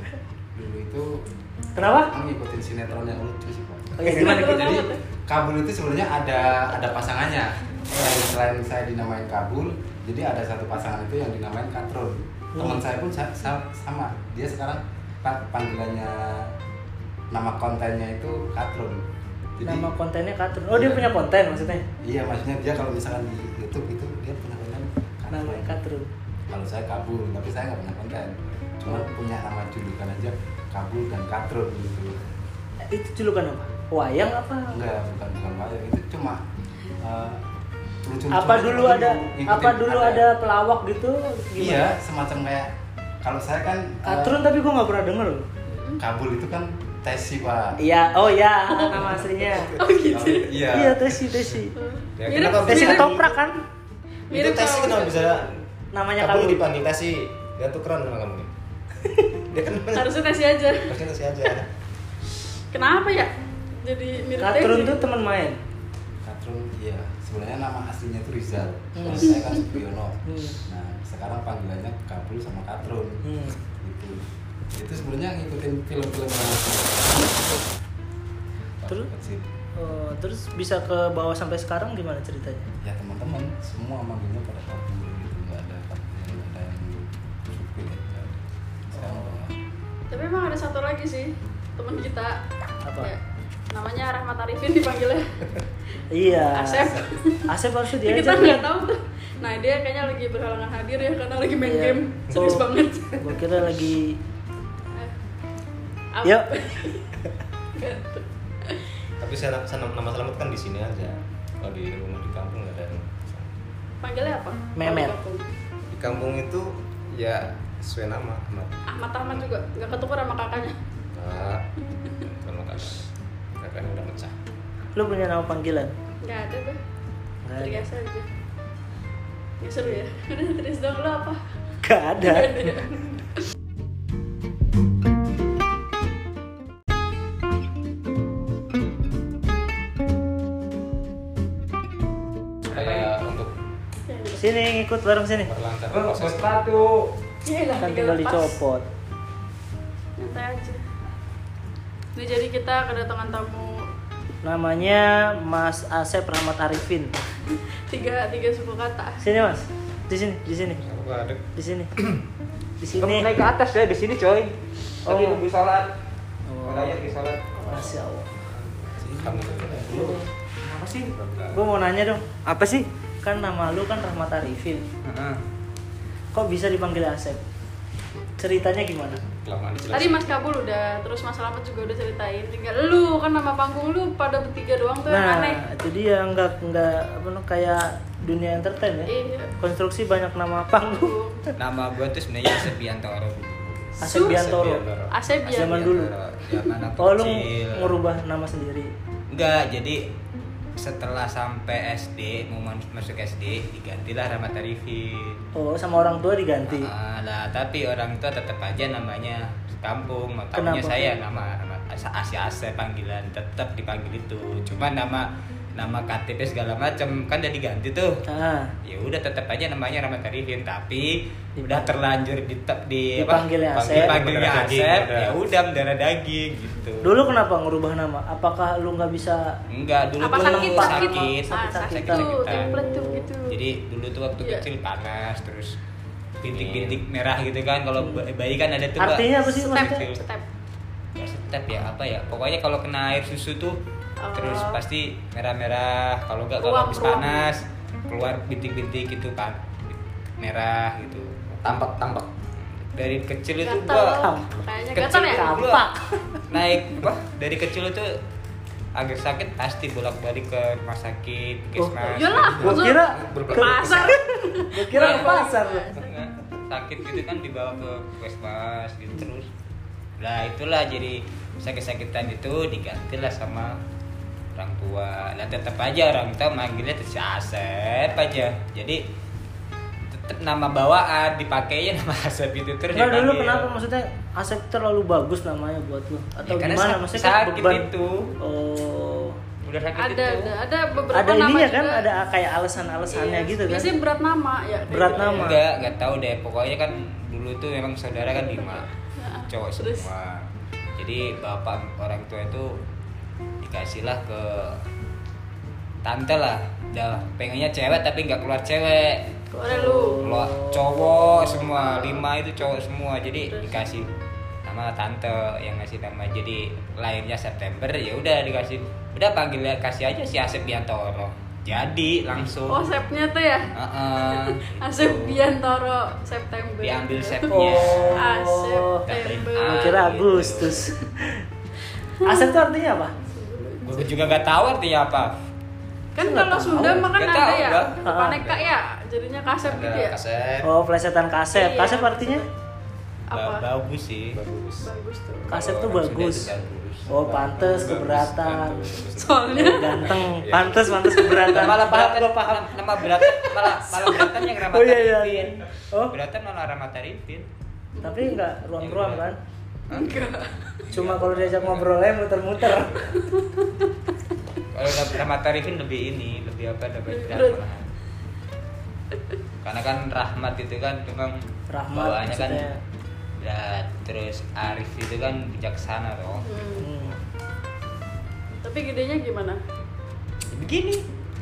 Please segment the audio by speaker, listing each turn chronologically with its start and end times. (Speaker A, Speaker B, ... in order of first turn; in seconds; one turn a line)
Speaker A: 0.5-1.2
Speaker B: 1.8-2.1
Speaker A: 2.1-16.5
Speaker B: 4.0-4.9
Speaker C: 4.0-5.0
Speaker B: 7.9-8.2
Speaker B: 12.5-12.8
Speaker A: 17.3-19.0
Speaker A: 19.6-19.9
Speaker B: 19.6-21.8
Speaker A: 20.7-21.1
Speaker A: 22.0-25.8
Speaker B: 25.3-26.1
Speaker A: 26.5-32.3
Speaker B: 32.9-34.8
Speaker A: 34.7-36.4
Speaker A: 37.0-37.4
Speaker A: 38.0-40.3
Speaker B: 38.3-41.9
Speaker A: 41.6-42.7
Speaker A: 43.2-44.4
Speaker B: 44.0-45.5
Speaker C: 45.7-46.0
Speaker A: 46.0-47.8
Speaker B: 47.8-49.8
Speaker C: 48.7-50.5
Speaker A: 50.1-51.6
Speaker B: 50.7-51.7
Speaker C: 51.8-53.2
Speaker A: 52.2-53.3
Speaker D: 52.3-53.3
Speaker B: 52.6-53.6
Speaker C: 54.3-55.5
Speaker A: 54.3-55.5
Speaker D: 54.4-55.3
Speaker B: 55.9-56.6
Speaker D: 56.2-56.8
Speaker A: 56.7-58.5
Speaker D: 58.1-58.5
Speaker A: 59.5-60.1
Speaker C: 59.9-60.9
Speaker A: 60.9-61.6
Speaker D: 61.1-61.6
Speaker C: 62.7-65.2
Speaker B: 64.4-65.6
Speaker A: 66.2-73.2
Speaker B: 68.9-69.4
Speaker B: 70.2-70.6
Speaker B: 73.2-73.5
Speaker A: 73.8-74.2
Speaker A: 74.7-77.6
Speaker A: 78.8-79.5
Speaker B: 79.8-82.7
Speaker A: 82.8-88.4
Speaker A: 88.9-89.6
Speaker B: 89.0-89.4
Speaker C: 90.1-92.4
Speaker B: 92.8-93.1
Speaker C: 93.7-95.2
Speaker B: 96.1-97.0
Speaker C: 96.5-103.1
Speaker B: 97.5-98.7
Speaker B: 101.6-102.7
Speaker B: 103.2-104.2
Speaker C: 106.1-107.2
Speaker B: 106.2-106.5
Speaker C: 107.8-108.8
Speaker D: 109.2-113.5
Speaker C: 114.0-115.5
Speaker B: 114.8-115.2
Speaker D: 115.9-118.8
Speaker C: 118.9-120.8
Speaker D: 121.1-121.6
Speaker D: 122.2-124.3
Speaker B: 124.9-125.9
Speaker C: 126.2-126.8
Speaker B: 127.4-127.8
Speaker C: 127.6-128.3
Speaker C: 129.6-131.4
Speaker B: 131.8-132.8
Speaker C: 132.2-133.0
Speaker E: 142.7-143.1
Speaker D: 142.7-143.0
Speaker A: 142.9-143.5
Speaker C: 144.1-144.5
Speaker B: 144.4-145.5
Speaker D: 145.4-146.0
Speaker A: 145.9-146.6
Speaker E: 145.9-147.1
Speaker C: 147.4-148.6
Speaker B: 147.8-148.9
Speaker C: 150.2-150.8
Speaker C: 152.2-153.8
Speaker B: 154.4-157.1
Speaker C: 157.5-159.2
Speaker B: 159.2-160.8
Speaker D: 160.8-161.4
Speaker B: 161.6-161.9
Speaker B: 162.8-163.4
Speaker E: 162.9-165.9
Speaker B: 165.1-165.4
Speaker B: 166.5-167.0
Speaker E: 166.6-167.8
Speaker C: 167.6-167.9
Speaker B: 167.6-168.3
Speaker D: 168.4-169.9
Speaker A: 169.0-170.2
Speaker B: 169.9-170.3
Speaker E: 169.9-171.1
Speaker D: 171.1-171.6
Speaker B: 171.5-172.2
Speaker E: 172.4-172.9
Speaker B: 173.2-174.8
Speaker E: 175.0-175.4
Speaker B: 176.3-177.4
Speaker B: 178.4-179.2
Speaker D: 179.3-180.3
Speaker C: 179.9-185.6
Speaker B: 185.1-191.1
Speaker C: 189.0-189.5
Speaker C: 190.7-191.4
Speaker E: 191.6-193.7
Speaker D: 193.9-195.1
Speaker B: 194.0-194.8
Speaker C: 194.0-195.9
Speaker B: 195.5-196.1
Speaker E: 195.5-197.9
Speaker B: 197.0-198.9
Speaker E: 199.3-200.0
Speaker E: 200.8-205.4
Speaker B: 205.5-206.9
Speaker E: 206.7-218.1
Speaker B: 210.5-211.0
Speaker B: 218.2-218.7
Speaker E: 218.8-227.2
Speaker B: 221.6-221.9
Speaker B: 223.2-224.2
Speaker D: 223.8-225.3
Speaker B: 227.0-229.4
Speaker E: 229.7-232.7
Speaker C: 230.2-233.5
Speaker B: 230.3-233.3
Speaker E: 233.5-235.7
Speaker E: 236.4-240.2
Speaker A: 236.7-237.0
Speaker B: 238.0-238.2
Speaker B: 239.0-240.1
Speaker C: 239.4-240.4
Speaker E: 241.2-243.7
Speaker C: 244.2-244.8
Speaker E: 244.3-254.2
Speaker C: 246.6-247.5
Speaker C: 253.6-255.6
Speaker B: 254.2-254.5
Speaker E: 254.9-255.8
Speaker B: 255.2-256.4
Speaker E: 256.5-258.1
Speaker E: 258.9-262.7
Speaker B: 261.8-265.9
Speaker C: 262.1-266.1
Speaker A: 262.3-263.0
Speaker D: 263.1-264.0
Speaker E: 264.9-269.5
Speaker E: 270.2-273.7
Speaker E: 274.6-279.0
Speaker E: 280.1-283.7
Speaker B: 282.9-287.9
Speaker E: 286.4-288.3
Speaker B: 288.4-289.4
Speaker E: 289.6-290.5
Speaker C: 289.9-292.1
Speaker B: 291.1-293.9
Speaker C: 293.1-295.5
Speaker B: 294.9-295.6
Speaker E: 295.1-298.9
Speaker C: 298.3-300.1
Speaker E: 299.5-300.4
Speaker E: 301.0-302.7
Speaker E: 303.6-304.8
Speaker E: 306.0-309.1
Speaker C: 309.5-310.2
Speaker B: 309.7-311.5
Speaker E: 310.2-314.1
Speaker C: 311.7-312.2
Speaker C: 313.5-313.8
Speaker E: 314.6-322.9
Speaker C: 322.7-323.6
Speaker E: 323.7-325.4
Speaker C: 324.2-327.5
Speaker E: 326.8-328.2
Speaker B: 327.5-331.4
Speaker C: 328.1-330.0
Speaker E: 329.1-330.9
Speaker C: 332.2-332.6
Speaker B: 332.2-333.1
Speaker C: 333.2-334.3
Speaker E: 333.8-335.3
Speaker C: 336.1-340.2
Speaker B: 336.2-337.1
Speaker E: 337.0-338.0
Speaker B: 338.0-338.5
Speaker D: 339.7-340.6
Speaker B: 340.6-342.4
Speaker C: 341.5-342.5
Speaker C: 343.3-343.7
Speaker E: 343.3-344.3
Speaker D: 344.3-344.9
Speaker C: 344.8-345.5
Speaker D: 345.5-345.9
Speaker B: 345.5-346.5
Speaker E: 345.7-347.1
Speaker B: 347.1-348.9
Speaker D: 347.2-351.6
Speaker C: 349.2-350.2
Speaker A: 349.3-350.4
Speaker B: 349.5-352.7
Speaker C: 350.9-351.4
Speaker A: 350.9-351.7
Speaker E: 351.4-357.5
Speaker C: 353.2-354.3
Speaker B: 354.7-356.2
Speaker C: 357.9-358.4
Speaker B: 358.0-359.4
Speaker E: 358.8-359.3
Speaker E: 359.9-360.3
Speaker C: 359.9-360.6
Speaker E: 360.9-361.9
Speaker B: 360.9-363.1
Speaker E: 362.7-363.1
Speaker E: 364.7-367.9
Speaker C: 367.1-367.6
Speaker E: 369.6-371.4
Speaker B: 371.7-372.8
Speaker E: 371.9-372.7
Speaker E: 373.4-377.2
Speaker C: 376.4-376.9
Speaker B: 376.8-377.1
Speaker C: 378.6-379.6
Speaker E: 380.5-381.0